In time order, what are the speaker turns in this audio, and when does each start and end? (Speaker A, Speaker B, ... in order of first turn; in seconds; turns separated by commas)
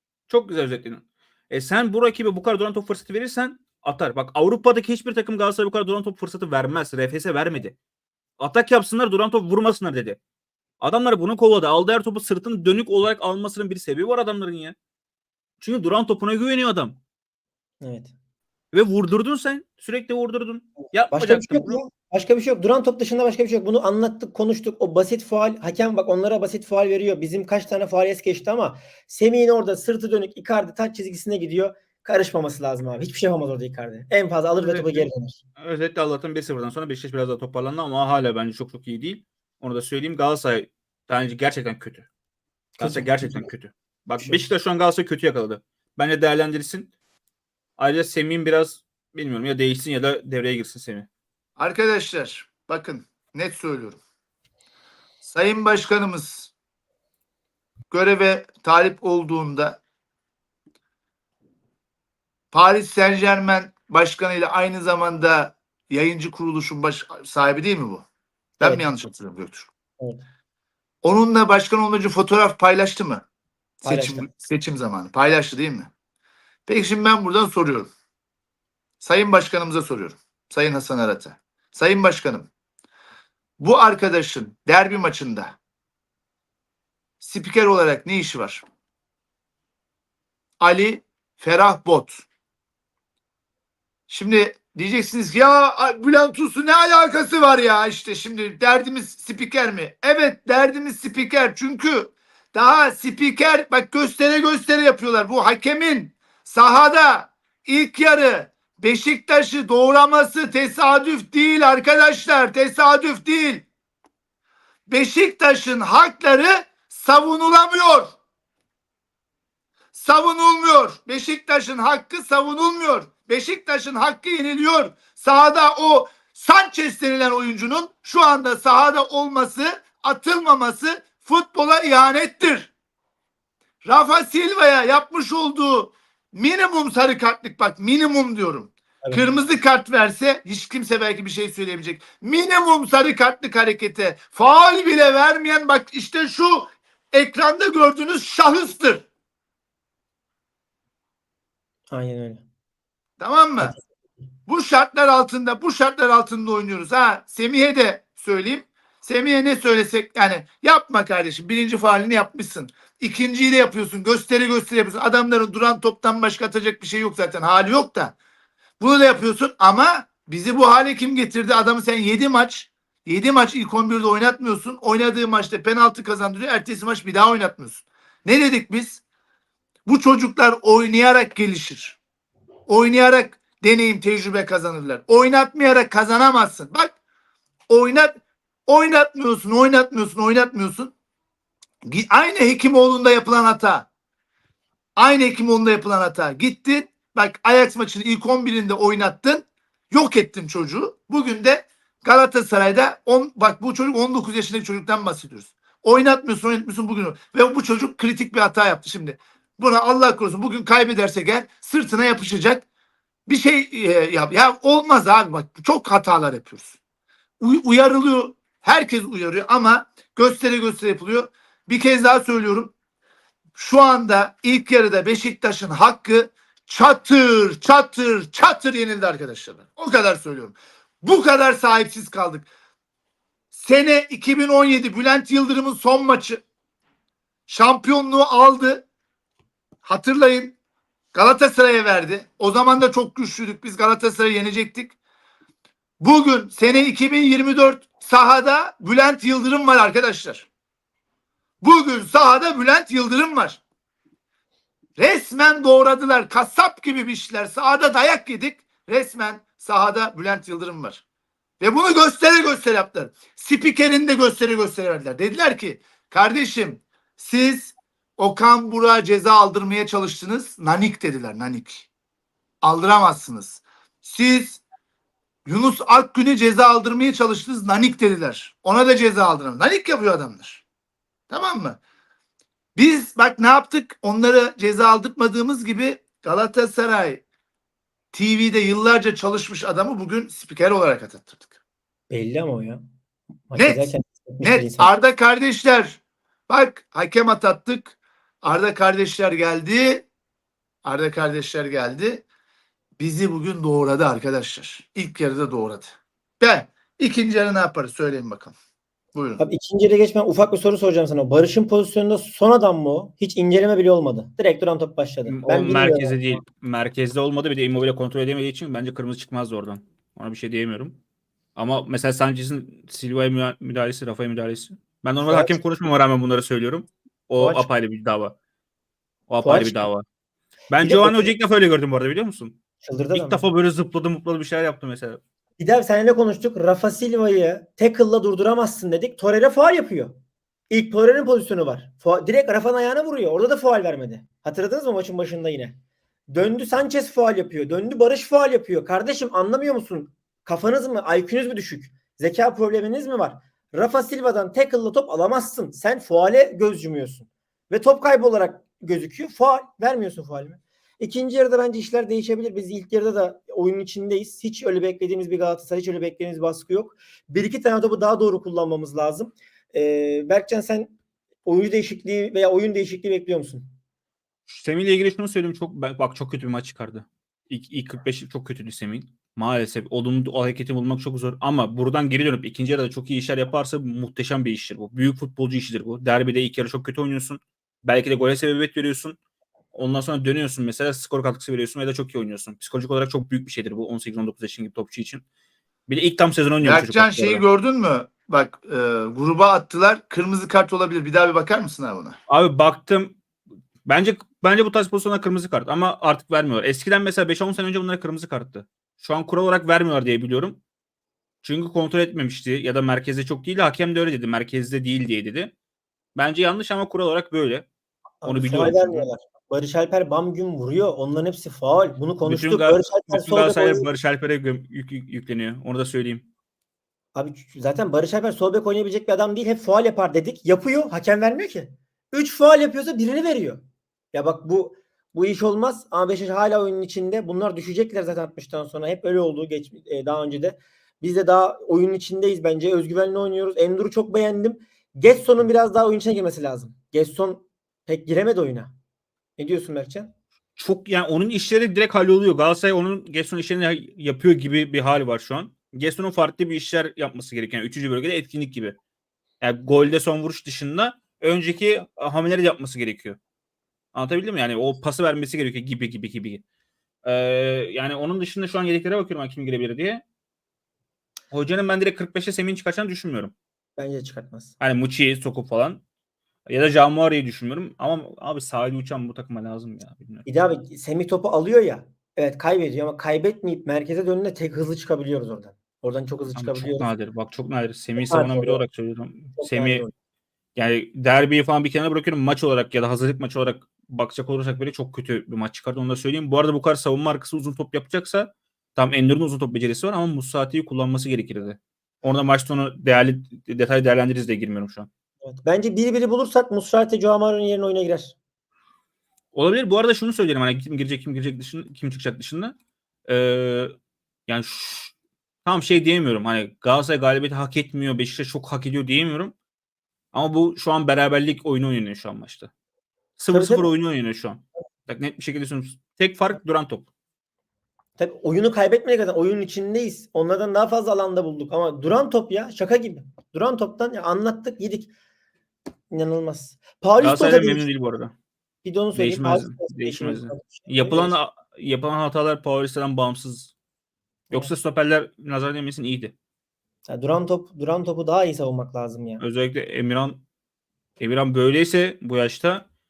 Speaker A: 0.3-7.8, Speaker A: 8.4-10.2, Speaker A: 10.8-14.8, Speaker A: 15.6-17.0, Speaker B: 17.8-18.1, Speaker A: 18.7-21.8, Speaker B: 20.9-35.4, Speaker A: 34.6-35.1, Speaker A: 35.6-42.1, Speaker B: 42.8-43.5, Speaker A: 42.8-46.9, Speaker A: 47.8-51.1, Speaker C: 51.6-54.0, Speaker C: 55.2-56.5, Speaker C: 57.9-59.8, Speaker C: 62.5-68.1, Speaker C: 68.6-69.7, Speaker B: 68.6-68.9, Speaker C: 71.0-73.2, Speaker C: 73.8-75.9, Speaker B: 73.8-74.3, Speaker C: 76.7-77.9, Speaker C: 79.0-82.5, Speaker C: 83.6-85.6, Speaker C: 87.2-88.6, Speaker C: 90.6-92.2, Speaker C: 94.1-113.7, Speaker C: 114.9-118.1, Speaker C: 119.9-132.7, Speaker C: 133.8-149.1, Speaker B: 151.9-152.4, Speaker C: 153.2-153.7, Speaker C: 154.5-168.2, Speaker C: 168.8-179.0, Speaker C: 179.8-182.0, Speaker C: 182.7-186.9, Speaker C: 187.7-188.1, Speaker C: 188.7-190.9, Speaker C: 191.8-193.9, Speaker C: 195.0-212.6, Speaker C: 213.3-216.7, Speaker C: 217.4-222.7, Speaker C: 223.6-232.5, Speaker C: 233.5-236.4, Speaker C: 237.5-238.8, Speaker C: 239.8-240.6, Speaker C: 241.1-244.9, Speaker C: 246.0-250.5, Speaker C: 251.6-253.6, Speaker C: 255.0-261.0, Speaker C: 261.6-271.9, Speaker C: 272.6-274.6, Speaker C: 275.4-280.6, Speaker C: 281.3-281.8, Speaker C: 282.8-287.2, Speaker C: 288.1-291.5, Speaker B: 292.1-292.8, Speaker B: 293.5-294.9, Speaker C: 293.6-293.9, Speaker C: 294.4-300.1, Speaker C: 300.8-302.2, Speaker C: 303.0-308.5, Speaker C: 309.1-309.4, Speaker B: 309.4-316.4, Speaker A: 315.3-321.0, Speaker A: 321.6-328.3, Speaker B: 325.2-325.6, Speaker B: 327.4-327.7, Speaker A: 329.3-330.0, Speaker B: 329.4-329.9, Speaker A: 330.7-332.6, Speaker B: 330.8-331.3, Speaker B: 332.8-333.4, Speaker A: 333.1-335.2, Speaker B: 335.6-340.1, Speaker B: 340.7-345.8, Speaker B: 346.3-373.6, Speaker A: 374.5-389.1, Speaker A: 389.7-395.2, Speaker A: 395.9-397.4, Speaker C: 396.6-402.2, Speaker A: 402.3-403.2, Speaker A: 403.8-410.6, Speaker A: 411.4-415.5, Speaker A: 416.1-417.6, Speaker B: 418.2-423.9, Speaker A: 418.2-419.1, Speaker A: 422.2-426.2, Speaker B: 427.1-448.7, Speaker B: 449.4-450.1, Speaker A: 450.6-458.8, Speaker A: 459.4-463.2, Speaker A: 463.9-466.4, Speaker A: 467.0-470.0, Speaker A: 471.3-473.3, Speaker B: 473.8-474.5, Speaker A: 474.6-475.8, Speaker A: 476.4-480.3, Speaker B: 480.2-486.9, Speaker A: 486.3-489.8, Speaker B: 488.0-488.6, Speaker B: 489.4-489.9, Speaker A: 490.6-504.9, Speaker B: 505.2-508.1, Speaker A: 509.3-512.5, Speaker A: 513.1-513.7, Speaker A: 514.3-514.9, Speaker A: 515.4-519.3, Speaker A: 520.1-522.5, Speaker A: 523.2-526.9, Speaker B: 523.3-523.7, Speaker B: 528.0-534.9, Speaker B: 535.9-537.7, Speaker A: 537.0-538.1, Speaker B: 538.6-541.1, Speaker A: 538.9-543.5, Speaker A: 544.3-546.1, Speaker B: 546.9-549.2, Speaker A: 549.2-550.2, Speaker A: 551.0-552.6